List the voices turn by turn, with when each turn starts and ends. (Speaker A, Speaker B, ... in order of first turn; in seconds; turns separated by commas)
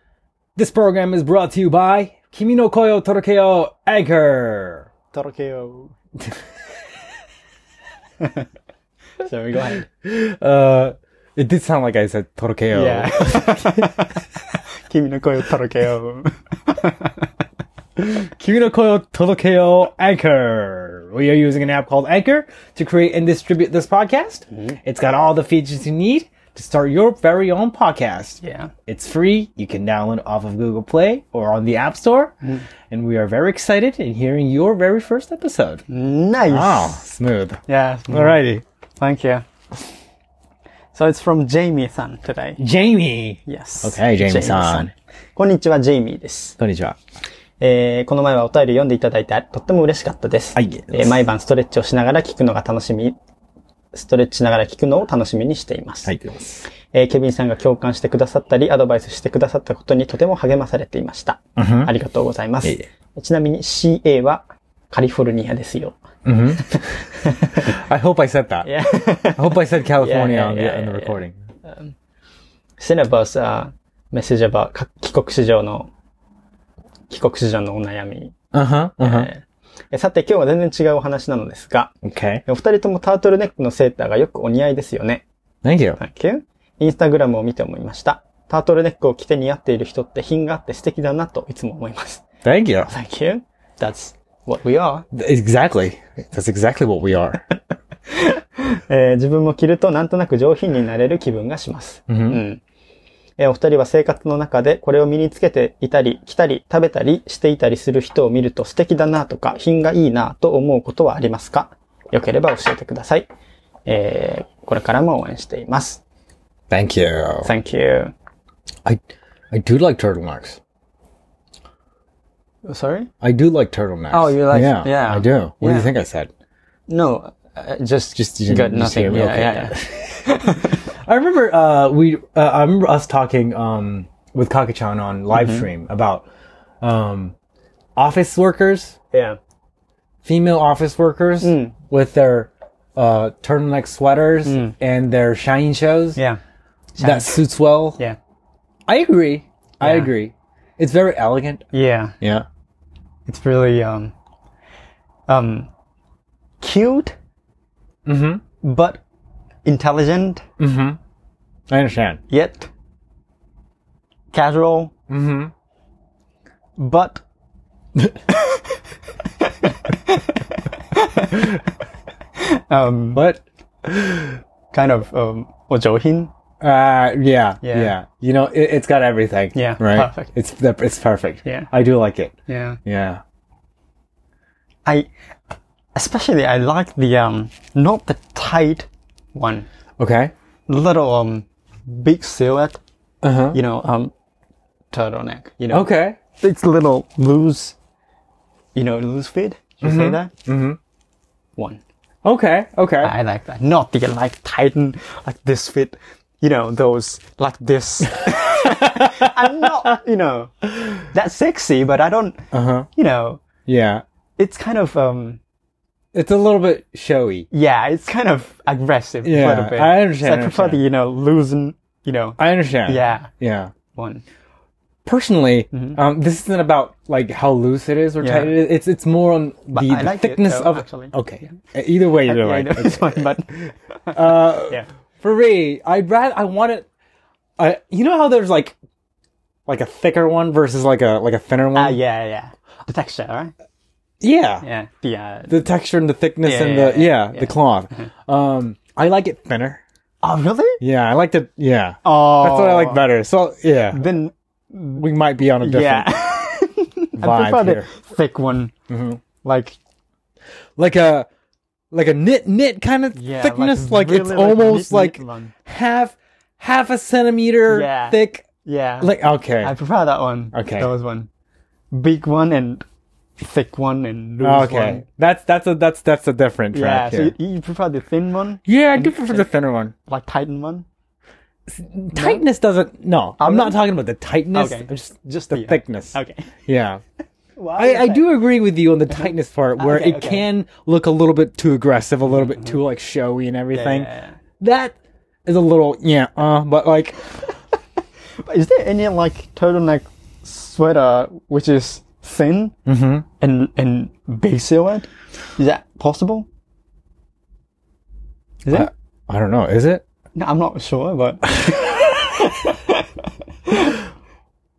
Speaker A: 0.6-4.9, Speaker B: 5.1-5.9, Speaker B: 8.2-8.4, Speaker B: 9.2-9.9, Speaker A: 10.0-14.0, Speaker B: 12.7-17.3, Speaker A: 18.0-32.3, Speaker B: 24.5-24.8, Speaker B: 28.4-28.7, Speaker A: 32.9-35.8, Speaker B: 35.9-37.0, Speaker A: 36.5-38.6, Speaker B: 37.7-38.4, Speaker B: 39.0-39.4, Speaker B: 40.9-42.6, Speaker A: 42.6-44.9, Speaker B: 43.5-46.6, Speaker A: 46.6-47.0, Speaker B: 47.6-53.2, Speaker A: 50.5-51.2, Speaker B: 53.9-56.1, Speaker A: 56.0-56.7, Speaker B: 56.7-66.0, Speaker A: 61.6-61.9, Speaker A: 66.2-66.7, Speaker B: 66.7-67.7, Speaker A: 67.6-68.7, Speaker B: 68.6-71.9, Speaker A: 69.3-71.4, Speaker B: 72.8-75.9, Speaker B: 77.1-78.3, Speaker A: 78.5-79.3, Speaker B: 79.0-81.9, Speaker A: 82.0-82.4, Speaker B: 82.5-85.2, Speaker A: 85.6-86.0, Speaker B: 86.0-92.2, Speaker A: 92.4-92.9, Speaker B: 92.9-95.0, Speaker A: 95.1-97.4, Speaker B: 98.1-102.6, Speaker A: 102.1-102.4, Speaker B: 103.4-113.3, Speaker B: 113.8-116.0, Speaker A: 116.7-117.5, Speaker B: 117.4-118.1, Speaker A: 119.5-120.6, Speaker B: 122.7-123.1, Speaker A: 123.2-126.3, Speaker B: 124.1-125.9, Speaker B: 126.9-130.8, Speaker A: 128.2-129.8, Speaker A: 131.1-136.2, Speaker B: 135.3-135.7, Speaker A: 136.8-137.3, Speaker A: 137.9-139.0, Speaker B: 139.1-139.4, Speaker A: 140.2-146.2, Speaker B: 141.4-141.8, Speaker B: 144.4-144.7, Speaker B: 146.9-148.2, Speaker A: 147.0-148.0, Speaker A: 148.9-151.6, Speaker B: 149.8-150.1, Speaker B: 151.7-152.2, Speaker A: 152.2-152.4, Speaker B: 153.3-154.1, Speaker B: 155.3-155.7, Speaker B: 156.6-157.1, Speaker A: 158.1-158.4, Speaker B: 158.6-159.0, Speaker B: 159.6-160.4, Speaker A: 160.6-161.0, Speaker A: 161.7-162.2, Speaker B: 162.3-162.7, Speaker B: 164.3-164.9, Speaker A: 165.1-165.5, Speaker B: 166.8-167.2, Speaker B: 168.3-168.6, Speaker B: 169.4-171.6, Speaker B: 172.4-173.2, Speaker A: 173.1-174.4, Speaker B: 174.7-176.3, Speaker A: 176.6-182.3, Speaker B: 177.6-177.9, Speaker B: 179.5-180.3, Speaker B: 181.4-181.7, Speaker B: 182.5-182.8, Speaker A: 182.8-183.2, Speaker B: 185.9-189.7, Speaker A: 190.0-190.3, Speaker B: 190.7-192.8, Speaker A: 193.2-193.6, Speaker B: 193.5-194.1, Speaker B: 194.9-197.8, Speaker A: 195.7-196.2, Speaker B: 198.7-200.3, Speaker A: 199.8-200.8, Speaker B: 201.6-201.8, Speaker A: 202.2-203.1, Speaker B: 203.0-213.4, Speaker A: 208.3-209.3, Speaker A: 212.5-212.9, Speaker A: 213.7-214.0, Speaker B: 214.4-215.4, Speaker A: 216.1-217.5, Speaker B: 217.5-223.3, Speaker A: 219.2-220.8, Speaker A: 222.4-223.7, Speaker B: 223.9-224.2, Speaker A: 225.1-233.6, Speaker B: 225.7-226.0, Speaker B: 228.2-228.6, Speaker B: 229.7-231.6, Speaker B: 232.2-234.9, Speaker A: 234.1-236.8, Speaker A: 237.6-238.8, Speaker A: 239.7-242.0, Speaker B: 241.7-243.5, Speaker A: 244.2-244.6, Speaker B: 244.6-245.7, Speaker A: 245.5-249.8, Speaker B: 246.4-248.1, Speaker B: 250.2-250.8, Speaker A: 250.8-254.0, Speaker B: 252.0-253.1, Speaker B: 253.9-255.0, Speaker A: 254.9-256.2, Speaker B: 255.6-258.7, Speaker A: 257.2-257.9, Speaker A: 258.9-259.2, Speaker B: 259.4-259.8, Speaker A: 260.8-261.3, Speaker A: 261.9-268.5, Speaker B: 263.1-265.5, Speaker B: 267.7-271.3, Speaker A: 269.0-269.7, Speaker A: 270.5-270.9, Speaker B: 271.9-272.8, Speaker B: 273.4-275.0, Speaker A: 274.4-277.3, Speaker B: 276.7-279.5, Speaker A: 278.6-279.9, Speaker B: 280.1-280.9, Speaker A: 281.7-286.1, Speaker B: 282.1-282.4, Speaker B: 283.4-283.8, Speaker B: 284.5-286.5, Speaker A: 286.7-287.0, Speaker B: 287.6-288.3, Speaker A: 287.8-294.1, Speaker B: 289.1-290.4, Speaker B: 292.2-292.8, Speaker B: 293.7-294.4, Speaker A: 294.6-294.9, Speaker A: 295.4-297.2, Speaker B: 298.4-302.7, Speaker A: 302.9-303.2, Speaker B: 303.4-306.5, Speaker B: 308.6-308.9, Speaker A: 308.7-310.0, Speaker B: 310.3-313.1, Speaker B: 313.6-314.0